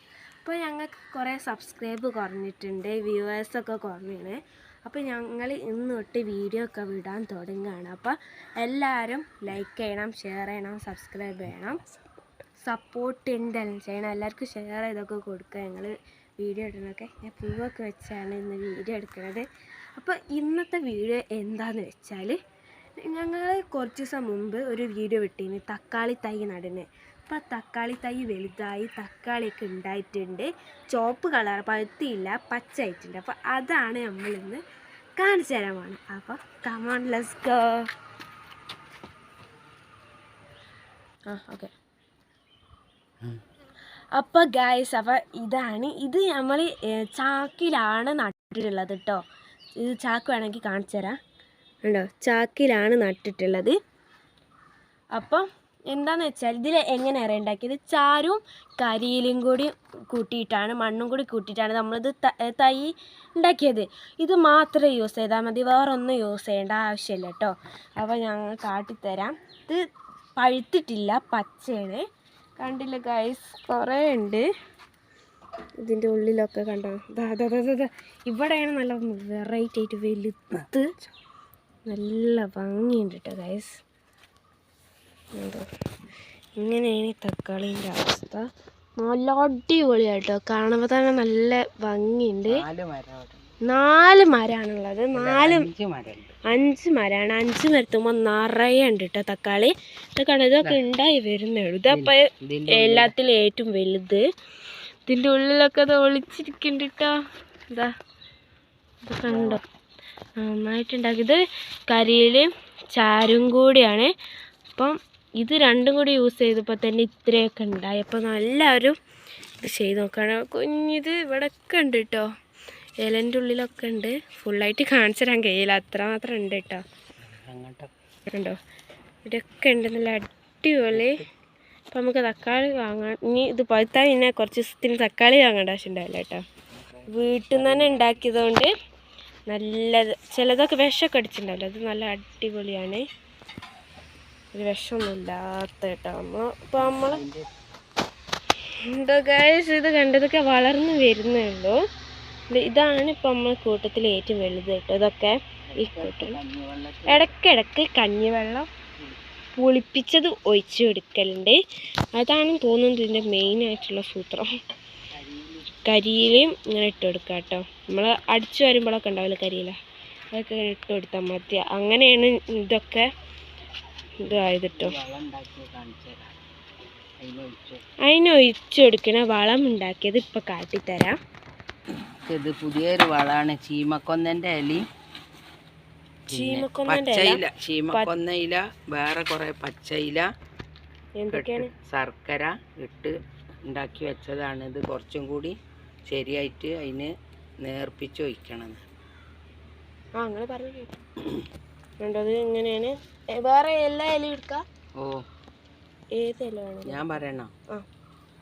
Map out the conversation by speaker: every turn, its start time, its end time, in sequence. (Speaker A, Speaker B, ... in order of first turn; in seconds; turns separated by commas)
Speaker A: 0.4-11.8, Speaker A: 12.6-19.4, Speaker A: 20.0-22.4, Speaker A: 23.0-34.6, Speaker A: 35.2-37.9, Speaker A: 41.3-41.7, Speaker A: 44.1-49.2, Speaker A: 49.8-51.1, Speaker A: 51.8-53.8, Speaker A: 55.1-69.8, Speaker A: 70.4-72.0, Speaker A: 72.6-74.5, Speaker A: 75.8-80.9, Speaker A: 81.9-83.8, Speaker A: 85.4-85.6, Speaker A: 86.6-88.5, Speaker A: 89.0-92.6, Speaker B: 92.5-93.5, Speaker A: 93.7-95.7, Speaker B: 95.1-96.3, Speaker A: 96.5-104.2, Speaker B: 101.9-103.1, Speaker A: 105.0-107.2, Speaker A: 109.0-109.6, Speaker B: 109.3-109.6, Speaker A: 110.4-114.1, Speaker A: 114.7-119.0, Speaker A: 119.6-122.3, Speaker A: 123.0-126.8, Speaker B: 127.2-127.9, Speaker A: 128.3-128.6, Speaker A: 129.2-131.2, Speaker B: 130.9-131.2, Speaker A: 131.9-136.4, Speaker B: 136.7-138.2, Speaker A: 137.1-138.7, Speaker A: 139.5-143.1, Speaker A: 144.5-147.2, Speaker B: 146.8-147.5, Speaker A: 148.8-151.8, Speaker A: 152.5-156.4, Speaker B: 155.7-157.3, Speaker A: 157.1-158.7, Speaker A: 159.6-161.6, Speaker A: 162.1-164.5, Speaker B: 165.1-165.8, Speaker A: 165.8-169.8, Speaker A: 170.3-173.1, Speaker A: 174.2-174.9, Speaker B: 174.3-176.3, Speaker B: 177.2-177.8, Speaker A: 178.1-181.1, Speaker B: 182.2-184.8, Speaker B: 186.3-190.2, Speaker A: 186.3-187.4, Speaker A: 191.2-191.7, Speaker B: 191.3-193.1, Speaker B: 193.7-195.6, Speaker B: 196.1-197.1, Speaker B: 197.6-198.8, Speaker A: 200.2-200.9, Speaker A: 202.0-204.6, Speaker B: 205.0-205.2, Speaker A: 206.2-207.2, Speaker B: 206.8-207.5